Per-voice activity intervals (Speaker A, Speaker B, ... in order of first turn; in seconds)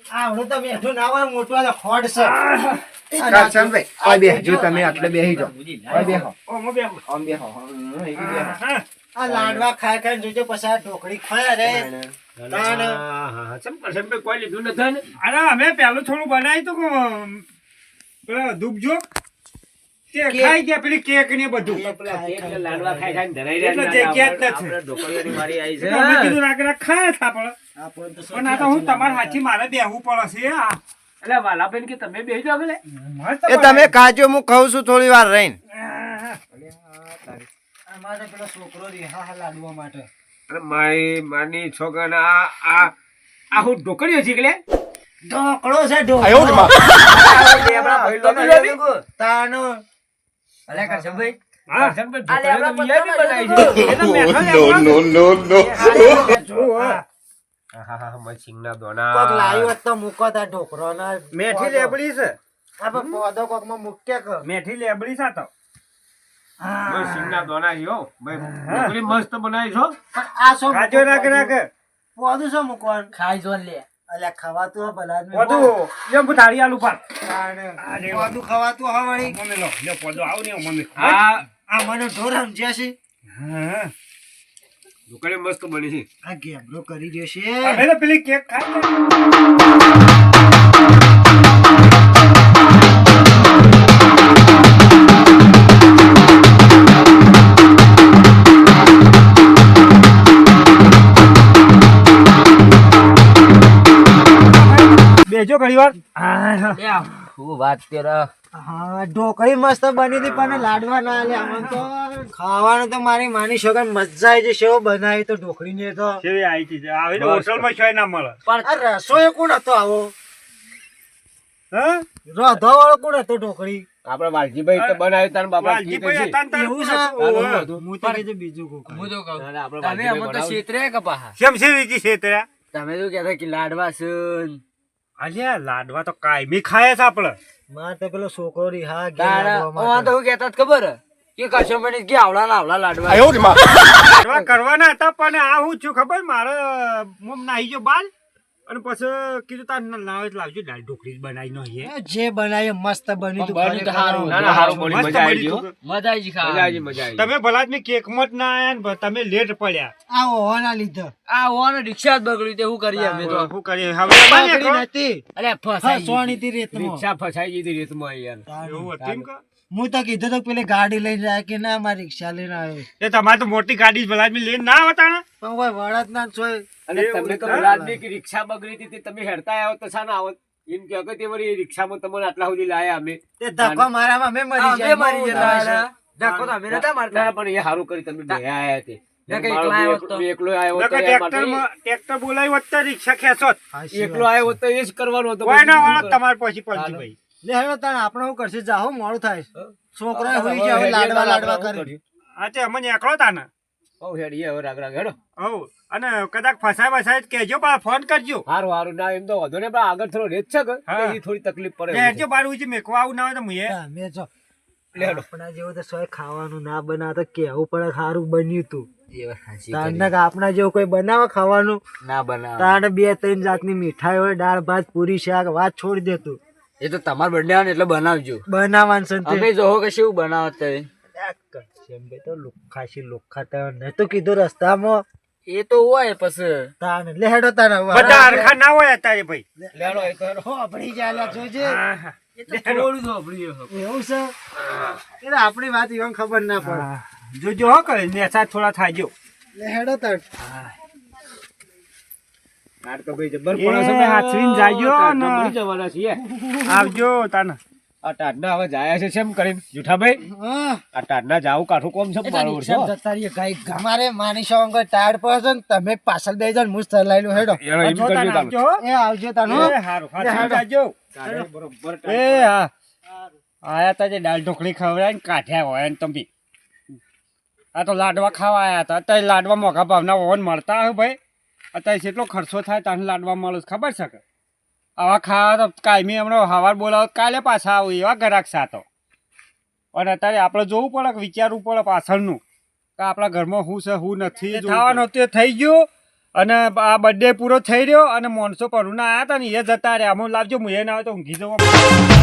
Speaker A: 0.1-2.3, 3.1-4.7, 9.1-11.9, 12.5-13.0, 20.3-20.6, 21.6-23.2, 27.8-29.4, 37.9-40.1, 45.2-47.6, 49.2-49.8, 50.7-51.3, 55.5-57.0, 59.1-62.0, 62.8-64.5, 70.1-71.5, 72.2-73.1, 74.1-75.7, 77.2-79.4, 81.7-82.9, 86.2-87.8, 108.6-116.2, 118.6-120.1, 122.2-123.8, 126.5-129.2, 137.7-140.2, 151.8-155.2, 160.1-161.1, 162.9-163.4, 164.1-165.2, 165.8-167.0, 168.5-168.9, 169.7-172.9, 175.4-178.0, 183.4-185.8, 193.7-194.5, 197.4-201.9, 213.7-214.3, 214.9-218.9, 219.7-221.8, 222.6-226.4, 228.5-229.5, 231.2-235.0, 236.8-238.6, 239.6-241.8, 243.7-244.3, 245.2-246.9, 249.5-250.2, 256.2-257.0, 260.3-260.8, 262.2-267.6, 268.8-270.6, 273.1-273.3
Speaker B: 2.2-2.8, 5.9-7.0, 8.2-8.8, 15.2-17.4, 18.3-19.0, 20.1-21.8, 23.6-24.8, 25.8-27.5, 28.3-30.8, 32.9-34.0, 35.7-36.4, 51.7-52.0, 53.6-57.0, 61.3-62.4, 62.9-63.2, 64.4-65.5, 66.6-67.5, 68.3-69.0, 70.7-71.7, 75.3-77.0, 77.8-78.4, 79.2-81.3, 83.3-83.9, 87.6-88.9, 104.3-106.9, 111.3-111.8, 116.2-118.4, 121.7-122.0, 125.6-128.2, 131.4-132.5, 135.2-137.4, 144.2-148.1, 148.7-151.9, 154.8-155.7, 157.2-159.9, 163.2-164.8, 168.6-169.4, 173.0-175.2, 176.9-177.7, 190.7-193.6, 195.4-197.2, 202.4-203.5, 205.4-208.4, 210.9-211.2, 211.9-213.8, 237.9-239.4, 241.6-242.9, 246.6-249.1, 250.4-250.7, 253.6-255.5, 256.6-257.6, 267.8-268.8, 269.4-270.9, 272.1-272.7, 273.6-276.3, 277.7-281.2, 281.7-284.2, 285.0-288.8, 289.9-292.4, 293.0-301.8
Speaker C: 3.2-6.3, 7.1-8.6, 9.2-9.7, 11.6-12.1, 33.5-35.6
Speaker D: 4.3-6.2, 24.1-25.7, 47.1-49.0, 50.7-51.3, 52.3-54.0, 73.1-73.8, 106.7-108.3, 118.5-118.7, 128.8-131.3, 132.7-134.6, 139.2-144.5, 153.3-154.9, 155.8-156.8, 161.3-163.5, 165.3-166.4, 183.6-183.9, 184.6-187.3, 189.3-190.2, 219.1-220.1, 222.0-222.8, 226.8-228.4, 229.2-230.9, 235.5-236.7, 242.3-243.7
Speaker E: 12.4-15.0, 22.0-26.4, 31.2-32.8, 36.6-37.4, 40.5-42.9, 43.5-44.6, 47.1-48.8, 51.7-54.0, 57.7-59.7, 66.8-69.9, 81.0-81.5, 85.1-86.0, 117.2-117.7, 124.0-126.3, 127.2-127.7, 129.3-130.6, 154.2-155.7, 156.4-157.3, 166.7-168.4, 169.0-169.3, 176.9-183.8, 185.3-191.6, 193.9-196.2, 196.7-197.0, 199.5-202.0, 204.0-205.2, 208.4-212.2, 214.9-215.3, 239.7-240.4, 252.8-256.2, 258.0-260.2, 260.9-262.9, 267.3-268.6, 271.1-272.5, 294.8-295.0